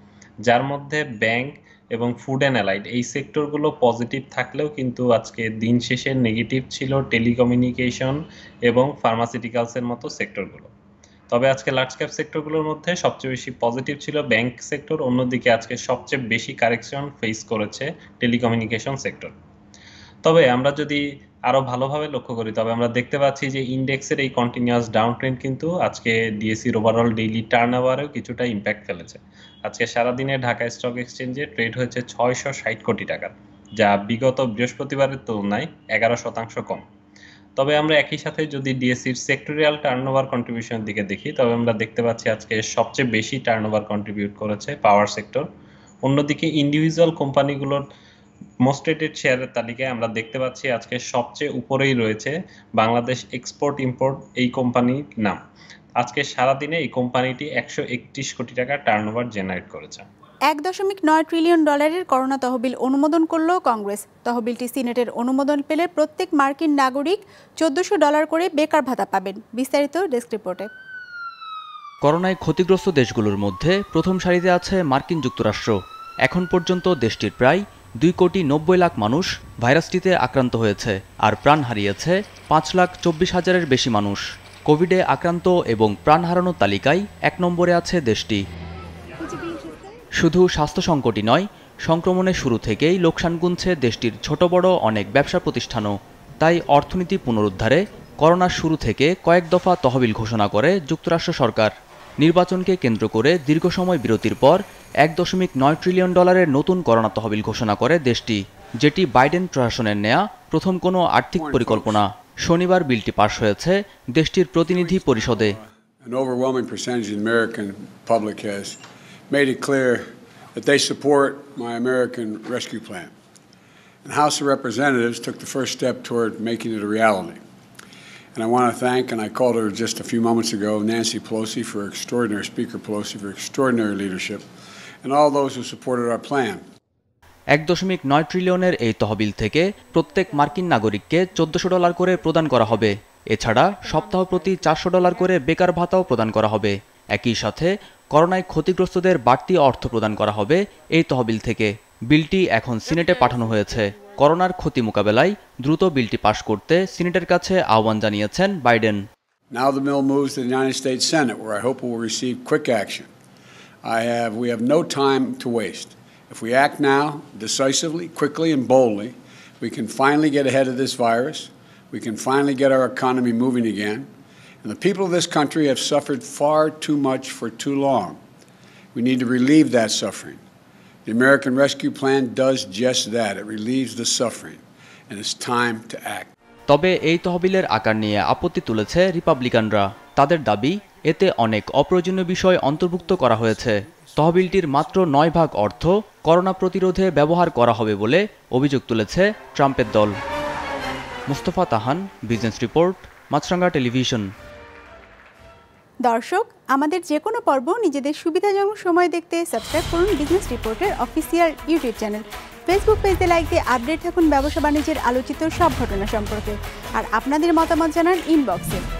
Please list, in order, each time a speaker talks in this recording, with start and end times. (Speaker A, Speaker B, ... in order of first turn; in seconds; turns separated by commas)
Speaker A: 0.5-10.7, Speaker A: 11.3-19.3, Speaker A: 20.2-36.8, Speaker A: 37.6-45.5, Speaker A: 46.0-47.8, Speaker A: 48.6-55.4, Speaker A: 56.0-60.0, Speaker B: 60.5-70.7, Speaker C: 72.0-75.7, Speaker C: 76.2-88.4, Speaker B: 89.2-89.9, Speaker C: 90.2-115.5, Speaker D: 111.3-112.0, Speaker D: 114.7-118.8, Speaker D: 119.3-123.1, Speaker D: 124.0-127.4, Speaker D: 128.3-134.4, Speaker D: 135.0-136.6, Speaker C: 137.5-159.0, Speaker D: 159.5-163.1, Speaker D: 163.8-174.1, Speaker D: 174.6-178.2, Speaker D: 178.9-180.4, Speaker D: 181.1-186.3, Speaker C: 186.7-200.1, Speaker C: 201.3-204.3, Speaker B: 206.1-218.8